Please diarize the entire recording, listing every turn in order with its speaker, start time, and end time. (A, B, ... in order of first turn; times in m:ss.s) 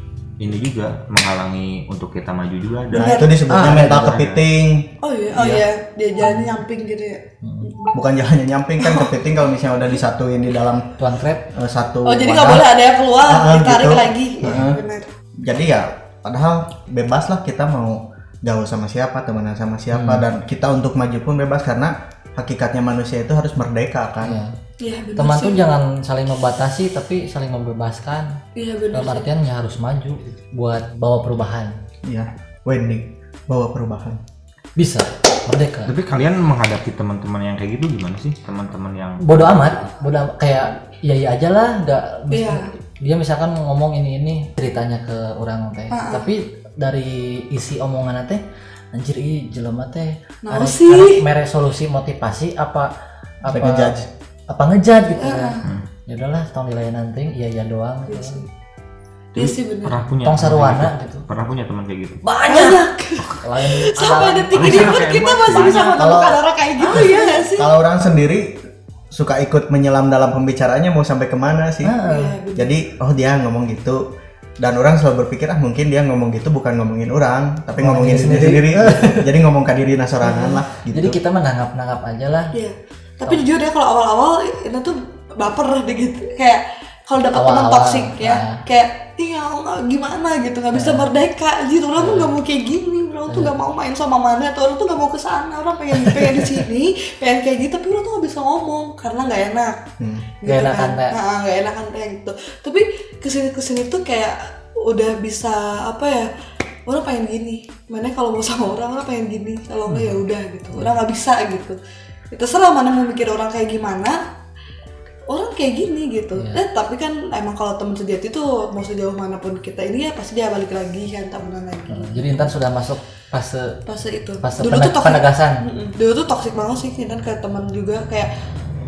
0:00.4-0:04.4 A
0:02.9-0:04.9 B
0:02.9-0:03.4 C
0:05.0-0:07.9 C
0:05.4-0:05.6 D
0:06.2-0:06.5 D
0:07.4-0:07.7 D
0:07.9-0:10.9 B
0:08.8-0:09.1 C
0:11.0-0:11.5 D
0:11.5-0:14.8 B
0:12.0-0:15.1 C
0:15.4-0:24.4 B
0:19.9-0:20.2 D
0:24.2-0:24.6 D
0:24.8-0:25.7 C
0:25.2-0:28.4 D
0:28.6-0:29.3 C
0:28.9-0:31.8 D
0:32.0-0:34.2 B
0:34.8-0:35.9 D
0:35.8-0:39.9 A
0:39.2-0:52.9 D
0:42.3-0:42.7 C
0:45.9-0:46.3 C
0:50.4-0:51.2 C
0:53.4-0:58.4 D
0:53.5-0:54.1 B
0:55.2-0:55.6 C
0:58.1-0:58.5 C
0:59.3-1:00.0 C
0:59.3-1:02.2 A
1:00.2-1:01.2 D
1:02.2-1:02.8 D
1:02.5-1:07.7 C
1:03.4-1:05.0 D
1:04.5-1:06.0 A
1:05.6-1:06.1 D
1:06.0-1:06.4 B
1:06.8-1:07.4 D
1:07.5-1:08.6 B
1:09.1-1:12.0 B
1:11.8-1:12.3 D
1:12.0-1:12.7 C
1:12.6-1:14.0 B
1:14.6-1:21.2 B
1:17.8-1:19.3 D
1:20.2-1:22.5 D
1:22.5-1:39.8 C
1:27.3-1:28.6 D
1:30.7-1:31.1 D
1:32.0-1:32.4 D
1:33.3-1:33.5 D
1:36.2-1:36.5 D
1:40.0-1:40.3 B
1:40.4-1:46.3 C
1:40.4-1:41.2 D
1:46.9-1:51.8 C
1:49.9-1:50.2 D
1:52.3-1:54.2 C
1:55.3-2:02.5 C
2:01.9-2:03.8 D
2:03.8-2:08.3 C
2:04.4-2:05.6 D